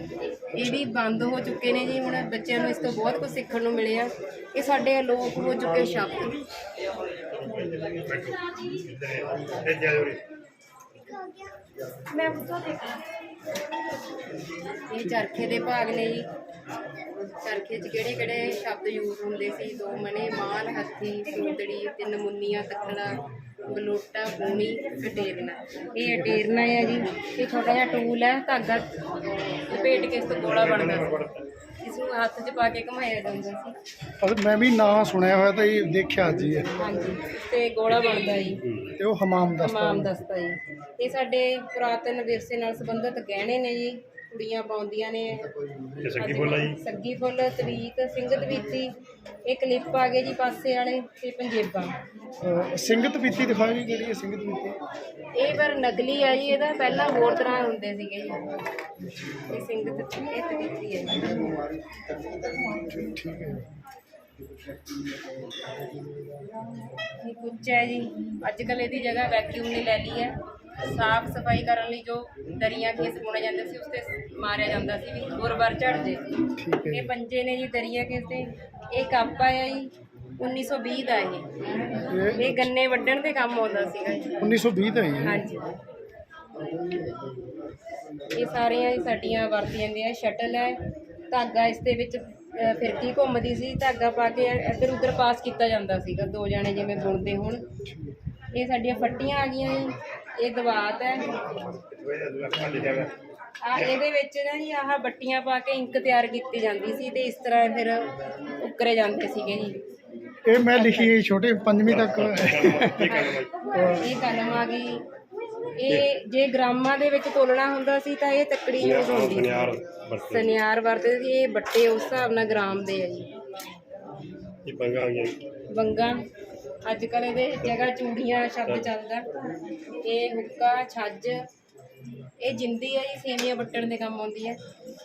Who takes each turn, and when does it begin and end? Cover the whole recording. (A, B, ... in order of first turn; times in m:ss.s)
0:00.5-0:06.4 A
0:07.3-0:10.2 B
0:14.9-0:16.3 A
0:17.4-0:28.9 A
0:29.7-0:31.2 A
0:30.4-0:31.5 B
0:31.8-0:33.7 A
0:34.2-0:36.7 C
0:36.8-0:38.6 A
0:38.6-0:39.0 B
0:39.0-0:40.1 C
0:39.6-0:45.5 A
0:46.0-0:46.8 B
0:46.2-0:48.9 A
0:49.5-0:51.9 A
0:52.4-0:54.8 C
0:55.4-0:58.4 A
0:59.5-1:01.5 A
1:02.9-1:03.7 C
1:07.2-1:16.2 A
1:16.6-1:17.1 C
1:16.9-1:21.5 A
1:22.1-1:22.7 C
1:22.3-1:24.4 A
1:24.4-1:25.4 C
1:25.2-1:25.6 A
1:28.4-1:30.8 A
1:31.3-1:37.6 A
1:37.9-1:38.2 C
1:38.5-1:41.3 A
1:41.5-1:43.1 B
1:43.6-1:49.8 A
1:50.5-1:53.2 C
1:50.8-1:51.1 A
1:51.9-1:53.5 B
1:53.1-1:55.0 A
1:53.7-1:54.1 C
1:55.8-1:59.6 A
1:58.8-2:00.6 B
2:00.3-2:03.3 A
2:04.7-2:05.4 B
2:05.7-2:06.2 A
2:06.9-2:09.3 A
2:10.0-2:11.4 A
2:12.4-2:14.6 A